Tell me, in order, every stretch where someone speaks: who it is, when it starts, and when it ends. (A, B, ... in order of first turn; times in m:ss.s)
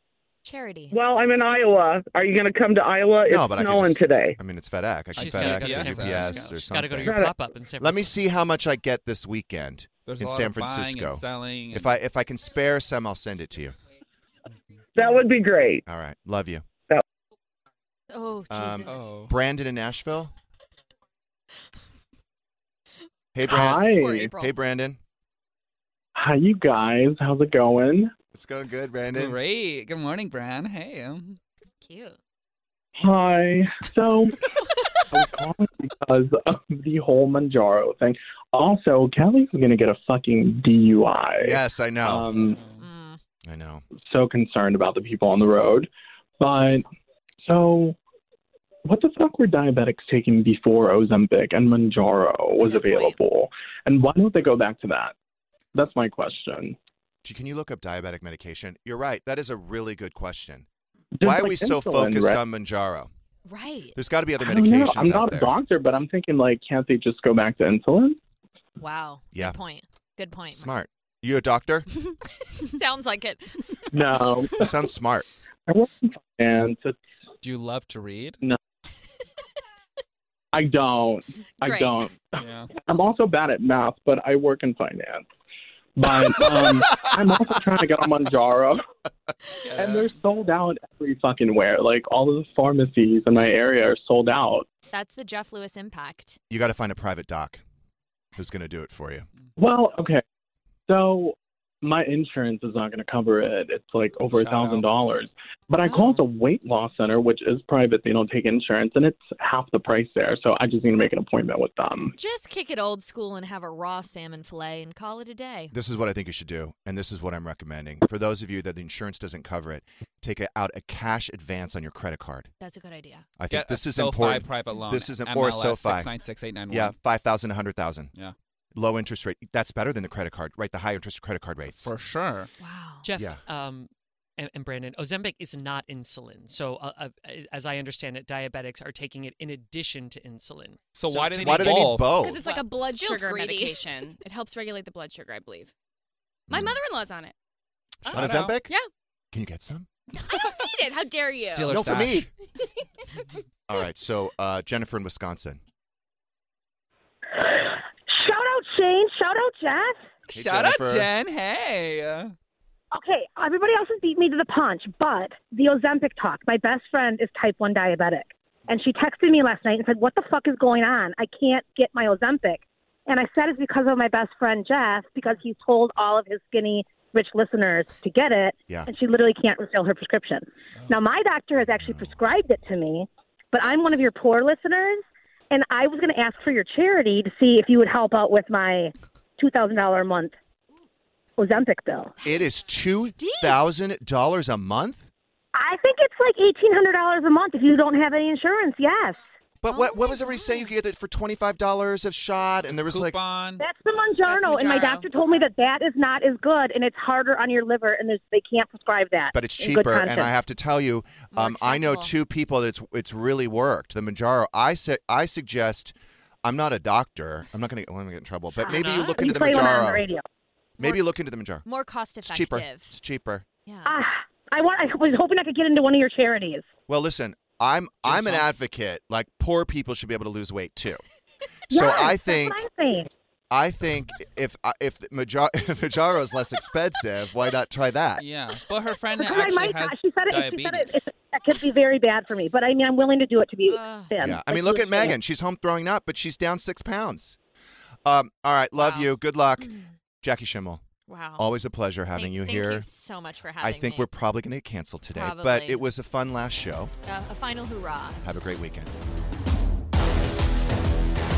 0:00.4-0:00.9 A
0:00.9-0:04.4 B
0:03.2-0:13.8 C
0:05.1-0:06.6 D
0:05.2-0:08.1 E
0:07.0-0:07.3 B
0:10.0-0:11.9 D
0:15.0-0:15.8 B
0:15.8-0:16.6 C
0:18.1-0:19.1 A
0:18.5-0:20.3 C
0:18.8-0:19.3 D
0:23.3-0:25.0 C
0:23.4-0:24.3 F
0:23.5-0:24.6 A
0:26.1-0:28.1 F
0:28.3-0:29.4 C
0:29.0-0:31.4 D
0:31.8-0:32.2 A
0:33.0-0:34.4 F
0:35.1-0:42.6 F
0:41.4-0:42.2 C
0:42.5-0:42.8 D
0:42.8-0:43.2 A
0:43.4-0:43.8 C
0:44.1-0:45.9 F
0:46.4-0:46.9 F
0:47.4-0:48.0 F
0:48.8-0:55.1 F
0:52.6-0:53.2 A
0:55.7-0:56.7 F
0:57.2-1:00.6 C
1:01.2-1:02.4 F
1:01.2-1:03.1 C
1:03.5-1:04.0 A
1:03.9-1:05.5 C
1:04.4-1:08.2 F
1:08.8-1:10.8 A
1:10.5-1:11.9 C
1:12.5-1:13.9 A
1:13.9-1:14.9 F
1:14.6-1:15.2 C
1:15.7-1:17.0 F
1:17.4-1:18.4 D
1:20.5-1:25.2 F
1:21.6-1:22.1 A
1:22.4-1:22.7 D
1:26.0-1:28.8 F
1:29.6-1:30.1 D
1:29.7-1:34.6 F
1:34.9-1:36.4 A
1:36.5-1:37.6 C
1:38.4-1:39.2 C
1:39.6-1:40.2 F
1:40.9-1:52.1 F
1:44.3-1:44.8 D
1:45.8-1:46.2 A
1:52.1-1:55.7 A
1:55.7-2:02.5 C
2:02.6-2:03.3 A
2:03.4-2:06.1 C
2:03.5-2:07.0 D
2:06.7-2:08.1 C
2:08.7-2:11.9 C
2:11.8-2:12.5 D
2:12.6-2:13.0 A
2:13.0-2:22.0 E
2:13.1-2:13.4 C
2:20.9-2:22.2 D
2:21.4-2:22.4 C
2:22.2-2:25.7 G
2:22.4-2:23.8 A
2:26.5-2:26.8 C
2:26.5-2:27.3 G
2:28.0-2:28.6 D
2:28.1-2:28.7 C
2:29.3-2:29.9 C
2:30.2-2:31.8 G
2:31.4-2:32.3 D
2:31.7-2:32.3 C
2:33.7-2:35.6 C
2:37.3-2:40.0 H
2:40.3-2:42.3 D
2:40.3-2:41.1 C
2:42.9-3:10.3 H
3:01.7-3:02.3 C
3:11.4-3:12.1 H
3:12.2-3:15.1 C
3:13.1-3:13.6 A
3:15.5-3:19.2 H
3:19.6-3:23.2 C
3:19.7-3:20.0 A
3:22.9-3:23.6 D
3:23.6-3:30.3 H
3:24.2-3:25.0 G
3:24.6-3:25.0 A
3:29.3-3:40.1 C
3:31.3-3:32.1 A
3:38.6-3:40.2 H
3:38.7-3:39.2 E
3:40.8-3:41.6 C
3:41.6-3:42.9 A
3:42.2-3:43.4 C
3:43.6-3:43.9 A
3:43.8-3:46.7 H
3:46.9-3:51.0 C
3:48.0-3:48.5 D
3:51.7-3:52.6 C
3:51.7-3:53.1 H
3:53.5-3:58.2 C
3:58.2-4:00.9 D
3:59.2-4:05.2 H
4:03.7-4:04.1 A
4:04.2-4:07.4 C
4:08.0-4:10.8 C
4:08.8-4:09.9 A
4:11.1-4:11.5 A
4:11.4-4:12.9 C
4:12.1-4:14.1 A
4:13.6-4:16.9 C
4:15.1-4:15.9 A
4:17.0-4:18.2 A
4:18.2-4:18.9 C